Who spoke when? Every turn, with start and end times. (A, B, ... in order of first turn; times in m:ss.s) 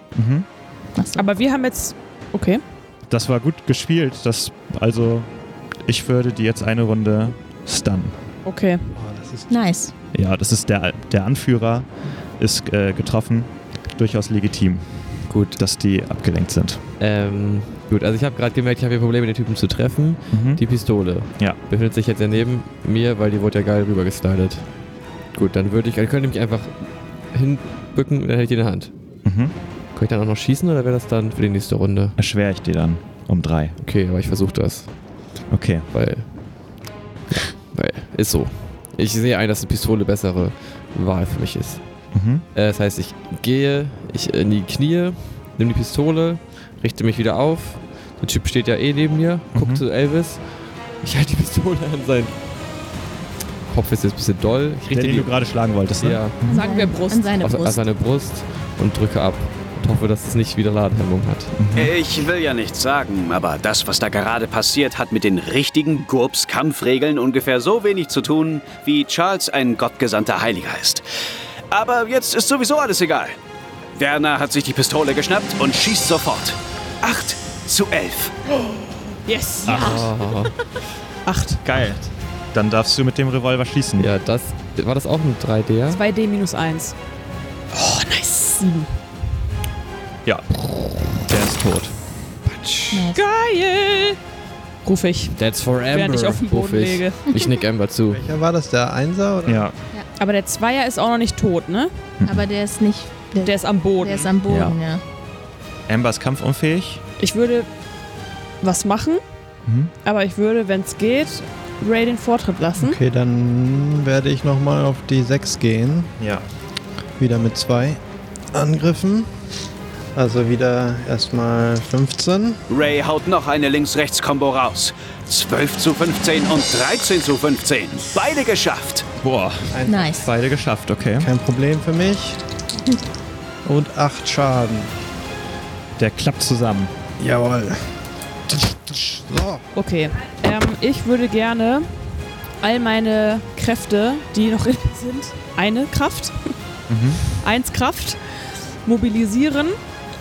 0:00.1-0:00.5 A
0:00.9-0:01.2 B
0:01.2-0:02.6 C
0:03.1-0:05.3 A
0:05.8-0:08.1 A
0:08.4-0:08.9 C
0:08.9-0:09.6 D
0:09.5-0:09.9 B
0:10.1-0:11.9 A
0:12.4-0:16.8 A
0:15.3-0:15.6 E
0:17.0-0:24.8 E
0:20.3-0:21.6 A
0:25.3-0:28.9 E
0:29.2-0:29.5 A
0:29.9-0:32.2 E
0:32.2-0:33.8 A
0:33.8-0:35.0 E
0:35.5-0:35.9 A
0:35.9-0:36.4 E
0:37.3-0:41.8 E
0:42.1-0:42.4 A
0:42.5-0:50.5 E
0:49.5-0:49.8 A
0:51.0-0:52.4 E
0:53.7-0:55.3 E
0:54.9-0:56.6 A
0:56.0-0:56.4 E
0:56.5-0:57.8 B
0:56.5-0:57.4 C
0:57.4-1:01.5 E
1:01.6-1:01.9 A
1:01.7-1:11.0 F
1:11.7-1:13.4 F
1:14.0-1:18.3 F
1:19.2-1:20.1 C
1:19.6-1:20.1 A
1:19.7-1:20.5 E
1:21.2-1:21.6 C
1:21.6-1:24.1 A
1:24.0-1:26.0 E
1:25.9-1:26.9 C
1:27.7-1:28.9 C
1:31.3-1:31.9 A
1:32.5-1:34.2 C
1:32.9-1:33.2 B
1:34.8-1:35.4 C
1:35.4-1:38.2 E
1:35.9-1:37.3 C
1:38.1-1:39.7 D
1:39.4-1:39.8 A
1:40.2-1:41.9 C
1:42.2-1:42.5 A
1:42.2-1:45.0 B
1:43.4-1:44.3 C
1:44.5-1:44.8 A
1:45.9-1:47.0 A
1:47.2-1:47.7 C
1:48.6-1:49.2 C
1:49.6-1:49.9 A
1:50.0-1:53.0 C
1:52.8-1:56.1 D
1:56.2-1:56.4 A
1:57.2-1:58.0 D
1:58.5-1:59.3 D
2:00.1-2:02.6 D
2:02.7-2:09.0 F
2:09.2-2:11.3 A
2:09.7-2:10.1 D
2:09.8-2:10.3 B
2:11.2-2:12.4 D
2:13.6-2:14.9 D
2:16.0-2:16.9 A
2:17.2-2:17.9 D
2:18.5-2:19.6 D
2:19.7-2:21.9 C
2:22.6-2:26.5 C
2:26.9-2:27.2 A
2:27.3-2:28.2 C
2:28.8-2:29.8 C